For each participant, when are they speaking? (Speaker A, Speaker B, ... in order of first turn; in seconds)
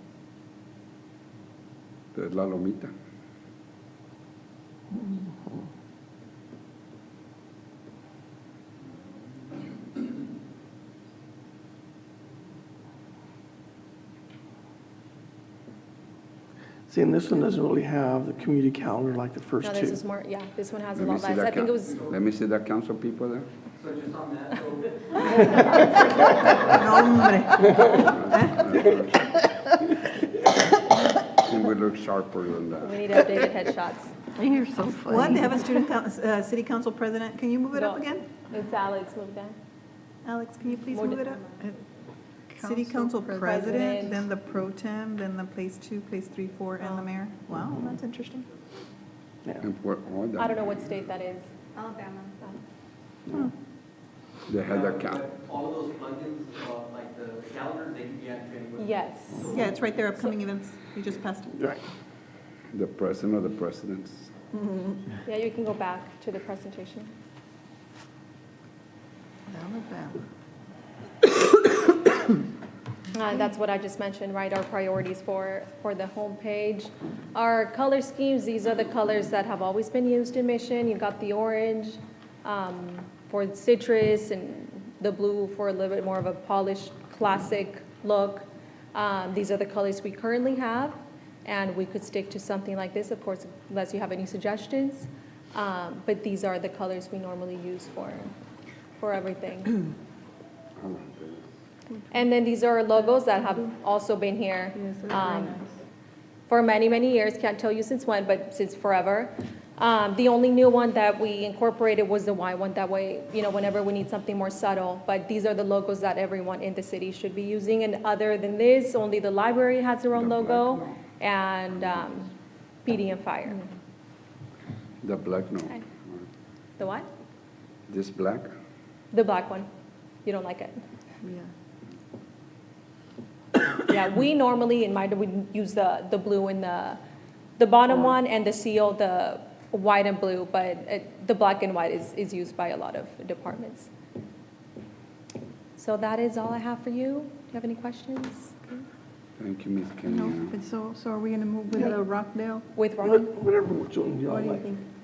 Speaker A: 2.1-2.9, 20.9-23.5, 28.0-29.3, 31.4-33.5, 49.6-50.9, 54.5-55.3, 62.7-64.3, 100.8-101.5, 120.1-121.0, 121.7-122.2, 125.0-126.2, 127.9-128.5, 149.4-150.6
Speaker B: 16.9-20.0, 61.5-61.8, 153.0-154.7
Speaker C: 19.6-22.0, 32.8-34.2, 37.7-39.5, 40.9-41.2, 43.4-44.2, 50.4-51.5, 58.8-59.6, 65.2-67.1, 73.1-98.3, 99.0-99.8, 102.1-105.6, 106.5-122.3, 122.8-123.6, 126.8-127.1, 129.1-129.7, 130.2-130.8, 133.8-137.0, 137.6-143.9, 145.8-148.8, 152.8-153.3
Speaker D: 23.8-25.7, 54.9-58.8
Speaker E: 26.6-28.7, 35.1-38.3, 40.2-41.8, 42.6-48.5, 51.8-52.3, 59.5-61.6
Speaker F: 34.3-35.8, 42.5-43.9, 69.5-70.0, 101.9-102.2, 104.7-105.7, 131.2-131.5, 150.1-152.7, 154.3-154.8